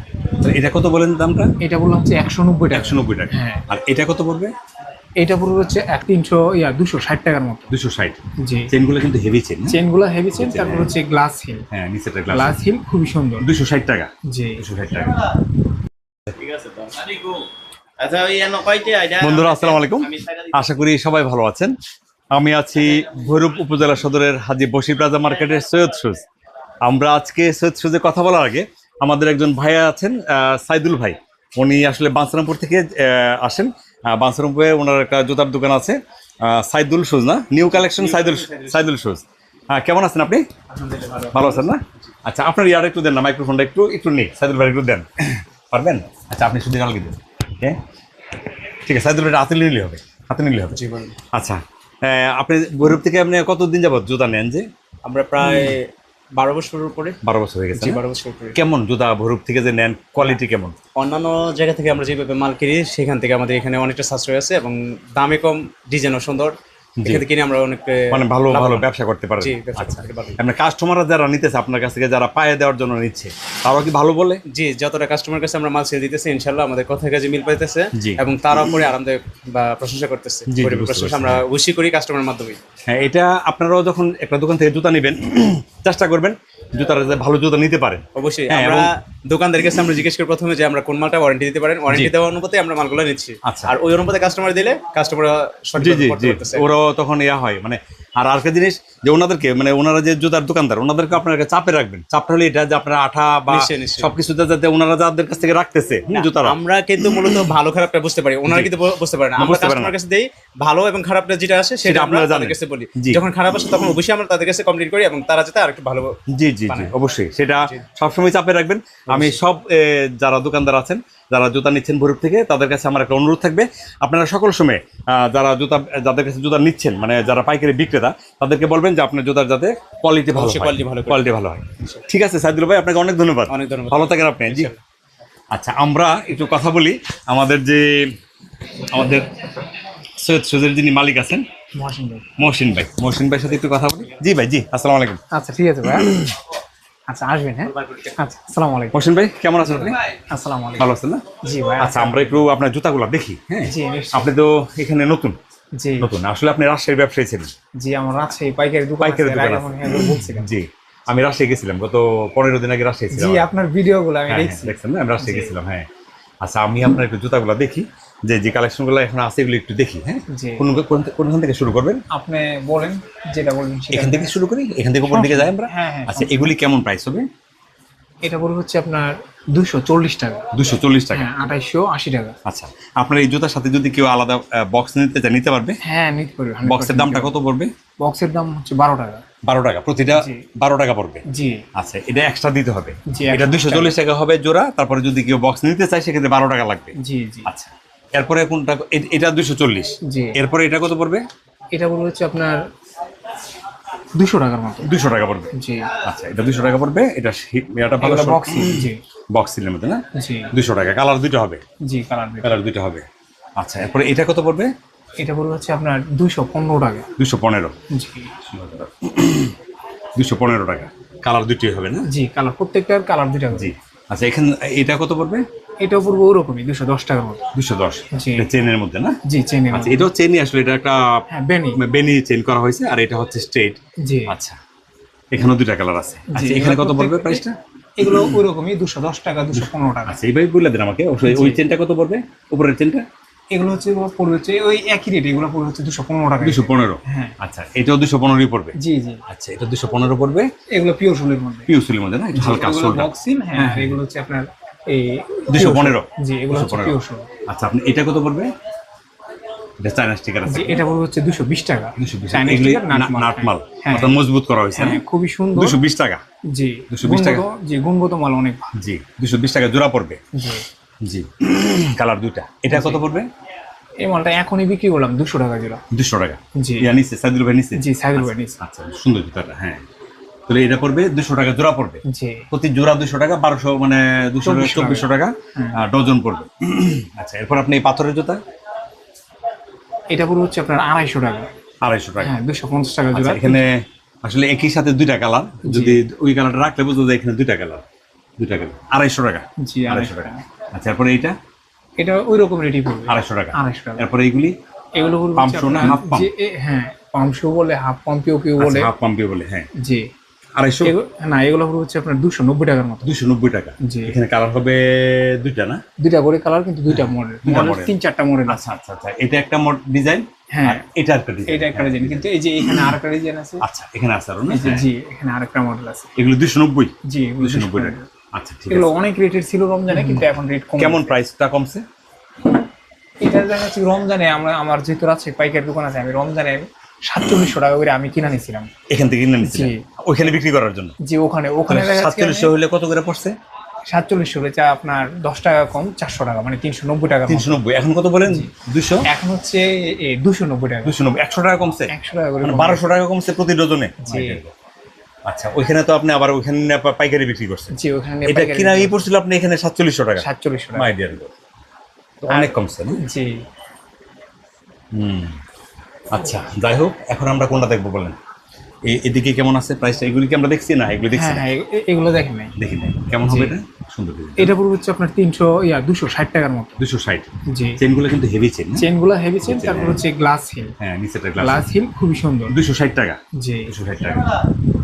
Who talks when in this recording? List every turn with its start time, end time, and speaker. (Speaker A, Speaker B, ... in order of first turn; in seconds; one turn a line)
Speaker A: 0.3-1.5
Speaker B: 1.6-3.6
Speaker A: 2.7-4.5
Speaker B: 5.2-7.7
Speaker A: 7.7-9.8
Speaker B: 8.4-8.7
Speaker B: 9.7-11.7
Speaker A: 10.3-10.9
Speaker A: 11.7-12.6
Speaker B: 12.3-13.5
Speaker A: 13.4-15.4
Speaker B: 14.3-14.6
Speaker C: 16.4-17.3
Speaker C: 18.0-20.5
Speaker A: 19.2-21.7
Speaker A: 22.3-26.2
Speaker A: 26.9-40.4
Speaker C: 38.0-38.7
Speaker C: 40.7-41.7
Speaker A: 41.3-47.8
Speaker A: 48.9-50.8
Speaker C: 50.7-51.2
Speaker A: 51.3-54.7
Speaker C: 55.0-57.2
Speaker A: 55.4-55.7
Speaker A: 57.2-58.0
Speaker C: 57.8-58.6
Speaker A: 58.5-60.8
Speaker C: 61.0-68.9
Speaker A: 67.0-67.3
Speaker A: 68.1-74.4
Speaker C: 69.4-70.4
Speaker C: 74.5-82.6
Speaker A: 78.0-78.8
Speaker A: 80.5-81.4
Speaker A: 82.9-88.9
Speaker C: 88.2-96.7
Speaker A: 93.5-93.8
Speaker A: 95.8-107.5
Speaker C: 103.5-104.2
Speaker C: 106.1-116.2
Speaker A: 108.5-108.7
Speaker A: 109.4-110.0
Speaker A: 111.8-113.2
Speaker A: 116.3-134.7
Speaker C: 119.1-119.4
Speaker C: 130.3-131.3
Speaker C: 133.5-134.8
Speaker A: 135.5-138.1
Speaker A: 138.9-139.4
Speaker A: 140.2-141.4
Speaker B: 141.8-142.3
Speaker A: 142.4-145.2
Speaker B: 145.3-146.1
Speaker A: 145.9-146.3
Speaker B: 147.1-149.1
Speaker A: 148.9-150.0
Speaker B: 149.8-150.9
Speaker A: 150.8-151.2
Speaker B: 151.4-152.4
Speaker A: 151.8-155.4
Speaker B: 153.7-154.3
Speaker B: 155.8-156.1
Speaker A: 156.0-157.5
Speaker B: 157.8-160.6
Speaker A: 159.0-163.5
Speaker B: 163.1-165.5
Speaker A: 164.3-165.9
Speaker A: 166.4-172.0
Speaker B: 170.3-170.7
Speaker B: 172.1-174.4
Speaker A: 173.9-177.2
Speaker B: 175.1-176.5
Speaker B: 178.2-180.4
Speaker A: 180.5-181.4
Speaker B: 181.1-182.3
Speaker A: 182.5-185.8
Speaker B: 185.8-187.4
Speaker A: 186.7-187.7
Speaker B: 188.0-189.2
Speaker A: 189.4-191.2
Speaker B: 190.2-190.4
Speaker B: 191.3-191.6
Speaker A: 191.8-196.9
Speaker B: 193.1-193.9
Speaker B: 197.0-197.5
Speaker A: 197.5-201.2
Speaker B: 200.1-200.4
Speaker B: 201.7-202.6
Speaker B: 204.2-204.9
Speaker A: 204.8-205.5
Speaker B: 205.5-205.9
Speaker A: 206.1-211.6
Speaker B: 208.0-209.0
Speaker B: 210.2-210.5
Speaker B: 211.9-212.6
Speaker A: 212.4-213.1
Speaker A: 213.6-214.7
Speaker B: 215.2-217.1
Speaker A: 217.2-217.7
Speaker B: 217.9-218.3
Speaker A: 218.4-219.6
Speaker A: 220.2-222.1
Speaker B: 222.1-223.7
Speaker A: 223.6-225.4
Speaker B: 225.8-227.4
Speaker A: 227.6-229.2
Speaker B: 228.1-228.5
Speaker B: 229.3-230.1
Speaker A: 229.7-231.2
Speaker B: 231.3-231.8
Speaker A: 231.8-234.6
Speaker B: 234.0-234.3
Speaker A: 235.3-238.4
Speaker B: 236.3-237.4
Speaker B: 238.0-240.2
Speaker A: 239.6-243.0
Speaker B: 241.3-241.6
Speaker B: 243.5-247.3
Speaker A: 246.4-248.8
Speaker B: 248.8-249.2
Speaker A: 249.3-250.5
Speaker B: 250.7-251.7
Speaker A: 251.7-254.0
Speaker B: 252.3-257.3
Speaker A: 255.5-257.0
Speaker A: 257.5-258.5
Speaker A: 259.8-260.8
Speaker B: 260.5-264.2
Speaker A: 262.0-265.0
Speaker B: 264.8-265.8
Speaker A: 265.6-266.2
Speaker B: 266.5-268.7
Speaker A: 266.9-267.4
Speaker A: 268.8-270.2
Speaker B: 270.4-270.6
Speaker A: 271.0-273.3
Speaker B: 272.7-273.0
Speaker B: 274.0-275.8
Speaker A: 275.9-279.8
Speaker B: 276.6-276.9
Speaker B: 277.8-278.6
Speaker A: 280.5-288.4
Speaker B: 282.1-282.5
Speaker B: 284.4-285.8
Speaker B: 290.1-291.5
Speaker A: 291.8-292.3
Speaker B: 292.2-293.6
Speaker A: 293.1-297.8
Speaker B: 295.6-296.0
Speaker A: 298.4-301.4
Speaker B: 299.6-300.4
Speaker B: 302.0-304.1
Speaker A: 303.1-304.6
Speaker B: 305.0-308.9
Speaker A: 305.4-306.3
Speaker A: 308.6-309.7
Speaker B: 309.8-310.1
Speaker A: 310.6-310.9
Speaker B: 310.8-313.1
Speaker A: 313.1-315.8
Speaker B: 313.8-314.1
Speaker B: 316.0-318.6
Speaker A: 316.9-317.9
Speaker A: 318.5-323.0
Speaker B: 320.5-320.8
Speaker B: 321.5-323.6
Speaker A: 323.6-324.9
Speaker B: 324.5-326.1
Speaker A: 326.2-328.9
Speaker B: 327.1-328.1
Speaker B: 328.7-331.1
Speaker A: 329.9-330.3
Speaker A: 330.8-331.8
Speaker B: 333.2-338.7
Speaker A: 338.9-340.9
Speaker B: 339.4-339.8
Speaker B: 341.0-342.5
Speaker A: 341.7-343.3
Speaker B: 343.9-347.6
Speaker A: 347.3-349.1
Speaker B: 349.1-350.9
Speaker A: 350.9-351.9
Speaker B: 351.9-352.8
Speaker A: 352.4-354.5
Speaker B: 354.0-354.4
Speaker A: 355.3-357.7
Speaker B: 357.7-359.0
Speaker A: 358.3-360.2
Speaker B: 360.2-360.9
Speaker A: 360.8-361.3
Speaker A: 362.2-363.0
Speaker B: 362.3-363.4
Speaker A: 364.9-365.4
Speaker A: 366.1-368.2
Speaker A: 368.9-371.5
Speaker B: 371.1-372.5
Speaker A: 372.6-374.5
Speaker B: 373.2-373.6
Speaker B: 374.4-376.8
Speaker A: 376.8-378.9
Speaker B: 377.5-377.8
Speaker B: 378.8-380.7
Speaker A: 379.4-380.0
Speaker A: 380.8-381.7
Speaker B: 381.4-382.5
Speaker A: 382.5-384.5
Speaker B: 383.4-383.7